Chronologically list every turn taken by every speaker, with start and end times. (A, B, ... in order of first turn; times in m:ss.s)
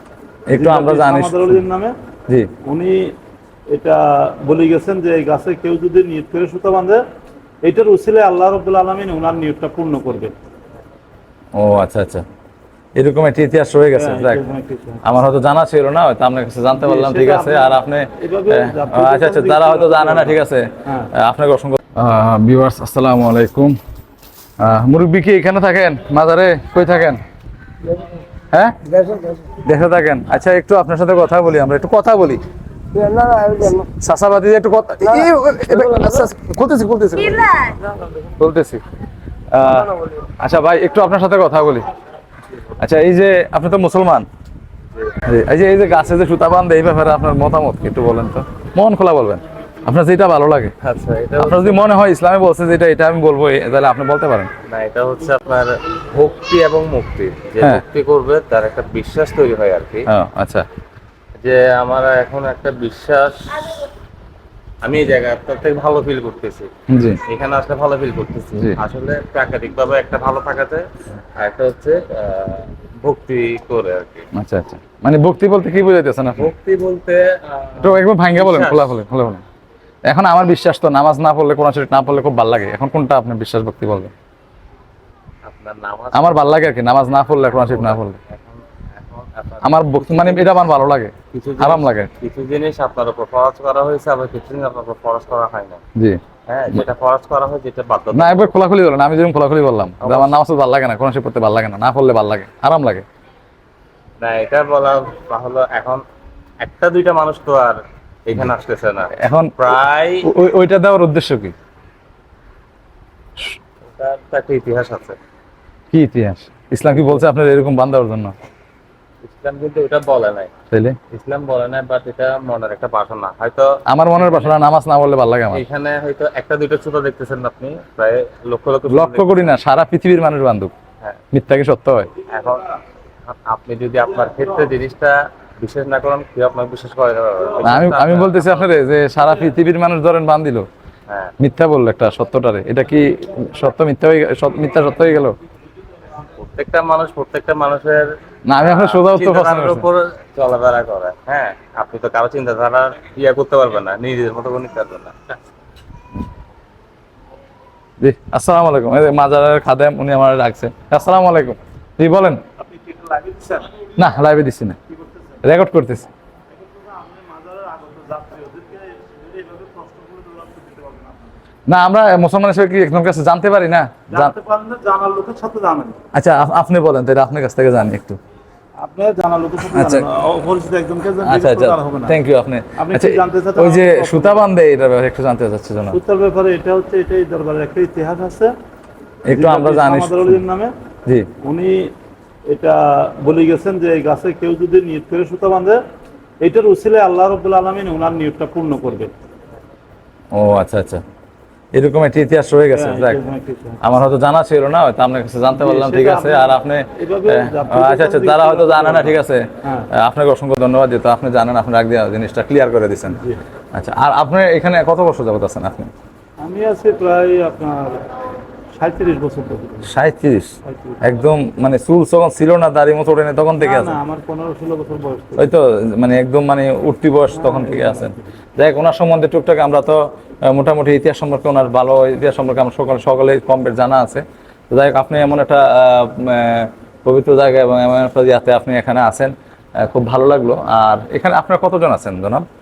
0:00.5-0:01.6 A
0:00.5-0:01.9 B
0:02.6-0:03.1 B
0:03.7-0:07.0 B
0:07.6-0:10.3 B
0:11.6-0:12.2 A
0:13.0-0:14.4 A
0:13.9-0:15.0 B
0:15.0-0:23.8 A
0:16.7-0:21.1 B
0:24.6-0:27.2 A
0:28.5-0:28.8 A
0:29.6-0:32.4 A
0:33.6-0:37.8 A
0:38.4-0:38.8 A
0:39.5-0:41.8 A
0:42.8-0:44.3 A
0:45.2-0:50.7 A
0:50.8-0:51.8 C
0:51.4-0:54.5 A
0:54.7-1:00.0 C
1:00.1-1:00.6 A
1:01.4-1:03.8 C
1:04.8-1:06.7 C
1:06.9-1:07.2 A
1:07.2-1:10.8 C
1:11.4-1:14.2 C
1:14.3-1:16.5 A
1:16.4-1:18.9 C
1:17.8-1:19.4 A
1:20.1-1:24.1 A
1:25.4-1:26.4 C
1:26.1-1:28.2 A
1:27.6-1:30.5 C
1:29.6-1:32.1 A
1:31.3-1:35.8 C
1:36.0-1:36.2 A
1:36.5-1:38.5 C
1:38.1-1:43.0 A
1:40.0-1:40.4 C
1:44.2-1:46.0 C
1:46.6-1:50.2 C
1:49.1-1:49.6 A
1:50.2-1:51.5 A
1:53.8-1:55.2 C
1:55.9-1:58.3 A
1:59.2-2:00.5 C
2:00.7-2:01.0 A
2:01.1-2:04.5 C
2:03.9-2:05.6 A
2:05.5-2:09.5 C
2:08.9-2:10.7 A
2:11.3-2:12.1 A
2:12.3-2:12.7 C
2:13.3-2:18.6 C
2:17.6-2:20.7 A
2:21.4-2:25.3 A
2:26.4-2:28.0 C
2:28.5-2:29.8 A
2:28.6-2:35.1 C
2:38.0-2:42.4 A
2:42.6-2:43.7 B
2:44.0-2:44.8 A
2:44.9-2:45.4 B
2:45.4-2:46.1 A
2:46.5-2:51.3 B
2:51.7-2:54.3 A
2:54.1-2:56.0 B
2:56.1-2:58.2 A
2:58.8-3:02.2 B
2:59.7-3:00.0 A
3:01.2-3:06.0 A
3:02.8-3:04.4 B
3:05.9-3:08.5 B
3:09.2-3:10.4 A
3:09.3-3:10.7 B
3:11.4-3:11.9 B
3:12.5-3:15.8 B
3:16.4-3:19.1 B
3:20.3-3:21.0 A
3:21.7-3:23.2 A
3:22.7-3:23.8 B
3:23.8-3:33.2 A
3:25.5-3:29.9 B
3:33.7-3:35.9 A
3:36.4-3:38.0 B
3:38.7-3:39.9 B
3:39.9-3:44.0 A
3:40.6-3:41.0 B
3:43.6-3:45.5 B
3:45.4-4:02.4 A
3:47.3-3:48.2 B